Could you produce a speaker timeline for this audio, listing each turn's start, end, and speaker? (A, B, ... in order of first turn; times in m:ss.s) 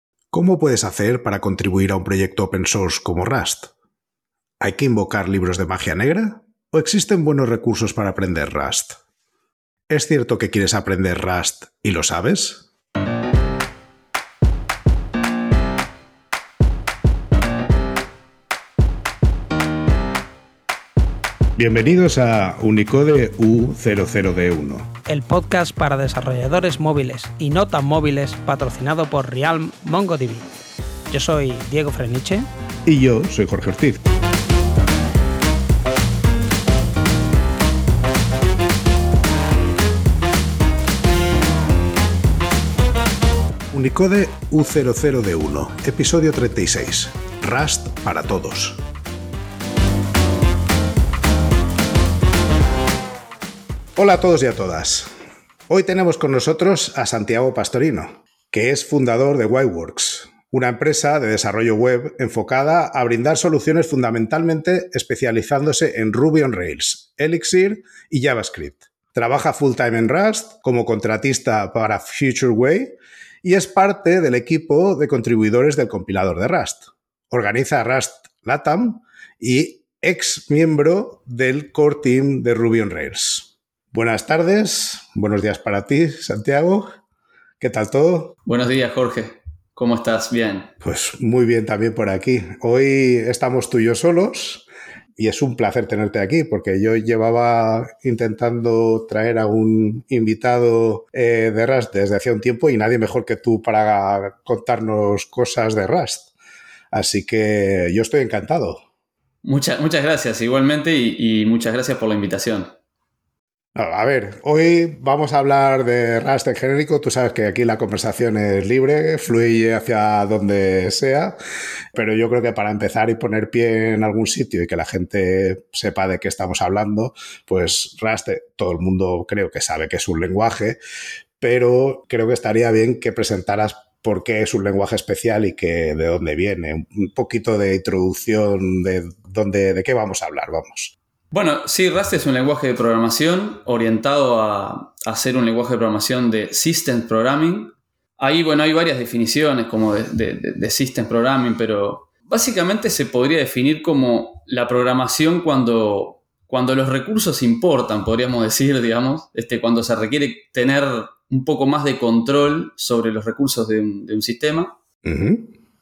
0:00.3-0:03.7 A
0:04.6-0:09.0 A
0:09.9-0:12.7 A
0:21.6-0:24.9 A
0:25.1-0:30.5 B
0:31.1-0:32.5 B
0:32.9-0:34.0 A
0:43.7-0:48.8 A
0:54.0-0:55.1 A
0:55.7-1:26.9 A
1:27.6-1:28.4 A
1:28.5-1:30.7 C
1:30.8-1:34.6 A
1:35.2-1:46.3 A
1:46.9-1:48.8 A
1:49.4-1:52.7 C
1:53.8-2:01.4 A
2:01.9-2:10.8 A
2:11.4-2:21.0 A
2:21.3-2:44.7 C
2:45.0-2:45.5 A